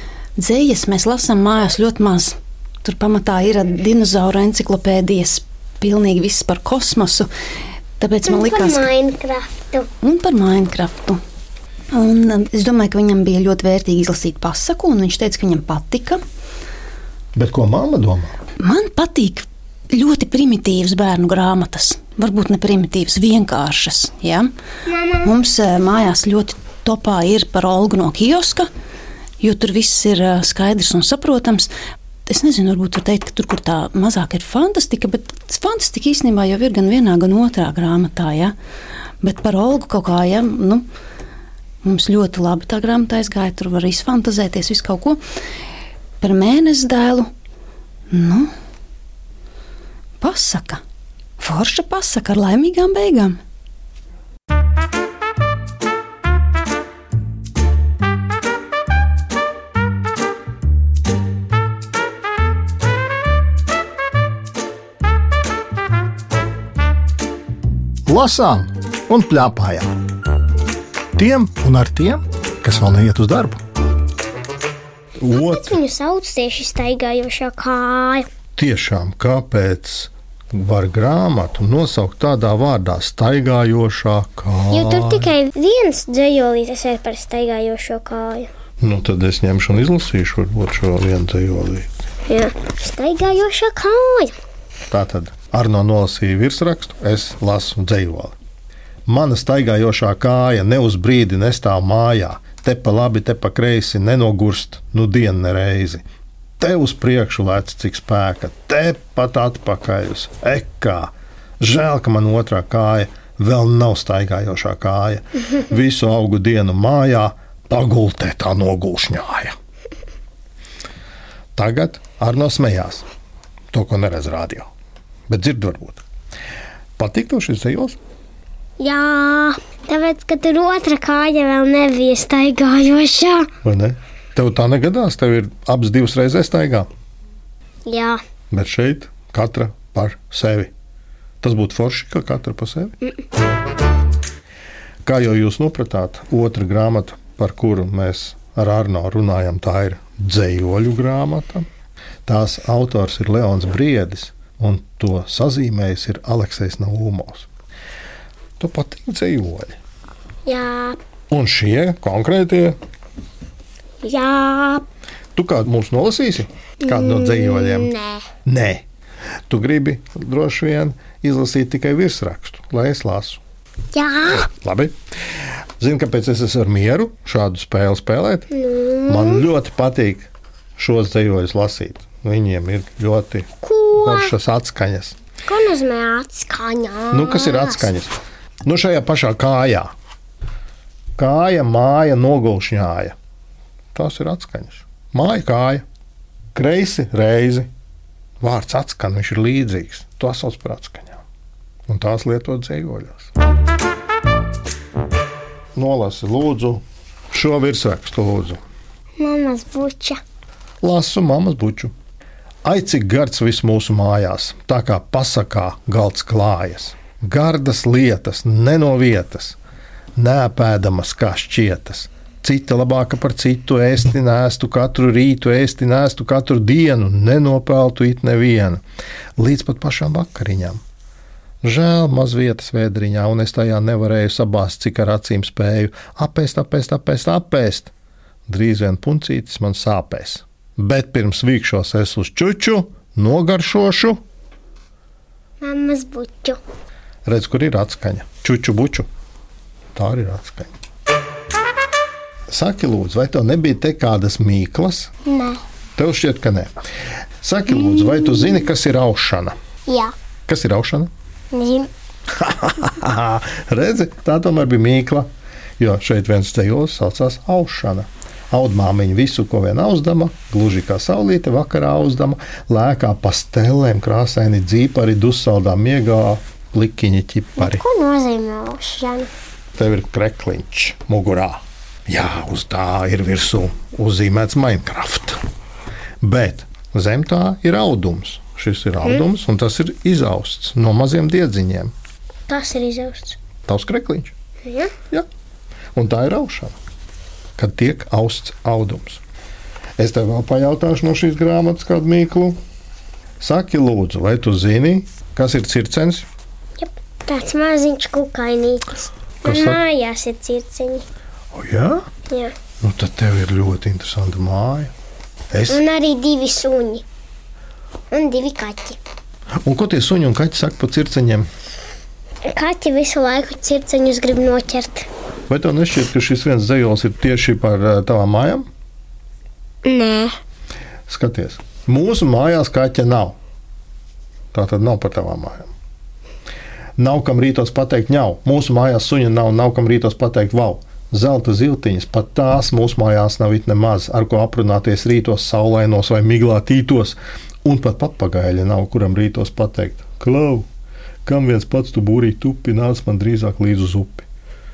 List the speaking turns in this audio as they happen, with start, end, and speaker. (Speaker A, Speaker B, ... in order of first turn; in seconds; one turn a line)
Speaker A: 0.4-7.3
Speaker A: 8.0-11.2
Speaker B: 8.3-9.2
Speaker A: 11.9-16.2
Speaker C: 17.3-18.3
Speaker A: 18.6-28.7
Speaker A: 29.4-31.7
Speaker A: 32.3-38.5
Speaker A: 39.2-40.9
Speaker A: 41.8-45.2
Speaker A: 46.2-47.3
Speaker A: 48.1-48.5
Speaker A: 50.2-50.8
Speaker A: 51.4-53.4
Speaker C: 68.0-69.9
Speaker C: 71.2-73.6
Speaker C: 75.2-75.8
Speaker B: 75.3-78.3
Speaker C: 78.5-85.3
Speaker B: 84.7-88.5
Speaker C: 88.8-91.9
Speaker B: 92.3-94.3
Speaker C: 94.9-98.3
Speaker C: 99.1-106.0
Speaker C: 106.6-119.5
Speaker C: 121.5-123.0
Speaker C: 123.7-124.7
Speaker C: 125.3-126.0
Speaker C: 127.0-128.0
Speaker B: 128.8-133.5
Speaker C: 133.6-136.9
Speaker B: 137.9-138.2
Speaker C: 138.5-140.7
Speaker C: 141.4-142.9
Speaker C: 145.0-151.7
Speaker C: 152.2-157.5
Speaker C: 158.6-159.8
Speaker B: 160.4-161.0
Speaker C: 161.3-162.8
Speaker B: 164.0-164.8
Speaker C: 165.3-168.8
Speaker B: 166.9-168.3
Speaker C: 169.5-173.4
Speaker B: 173.9-174.4
Speaker C: 174.3-174.9
Speaker C: 175.8-178.5
Speaker B: 178.5-179.4
Speaker C: 179.1-185.2
Speaker B: 183.6-184.3
Speaker B: 185.4-187.9
Speaker C: 187.1-188.1
Speaker C: 188.6-189.9
Speaker C: 191.2-193.1
Speaker C: 193.9-195.8
Speaker C: 196.5-197.7
Speaker C: 198.4-201.2
Speaker C: 201.9-203.3
Speaker C: 205.8-208.6
Speaker B: 209.2-210.2
Speaker C: 210.8-211.9
Speaker C: 212.6-219.6
Speaker C: 220.2-228.8
Speaker C: 229.4-230.8
Speaker C: 231.6-237.9
Speaker C: 238.5-244.2
Speaker B: 245.6-246.6
Speaker C: 247.2-249.1
Speaker C: 249.9-250.7
Speaker C: 252.5-255.1
Speaker B: 255.2-255.6
Speaker C: 256.0-256.8
Speaker C: 257.4-259.5
Speaker B: 259.9-260.1
Speaker C: 260.5-261.1
Speaker B: 261.5-261.9
Speaker C: 262.3-265.3
Speaker C: 265.8-277.8
Speaker B: 277.6-279.3
Speaker C: 279.8-285.4
Speaker C: 286.2-291.9
Speaker B: 292.5-293.4
Speaker C: 293.6-294.3
Speaker B: 294.6-294.9
Speaker C: 295.9-296.8
Speaker C: 297.6-299.2
Speaker C: 300.0-302.6
Speaker C: 303.4-306.2
Speaker B: 306.8-311.0
Speaker C: 309.4-309.8
Speaker C: 311.5-312.0
Speaker B: 312.3-312.5
Speaker C: 312.8-314.9
Speaker C: 315.5-315.8
Speaker B: 315.7-317.0
Speaker B: 318.1-319.0
Speaker C: 319.6-321.5
Speaker B: 322.5-325.1
Speaker C: 325.5-328.6
Speaker B: 329.9-330.4
Speaker C: 331.1-333.4
Speaker C: 334.5-335.7
Speaker C: 337.0-350.6
Speaker C: 351.2-354.2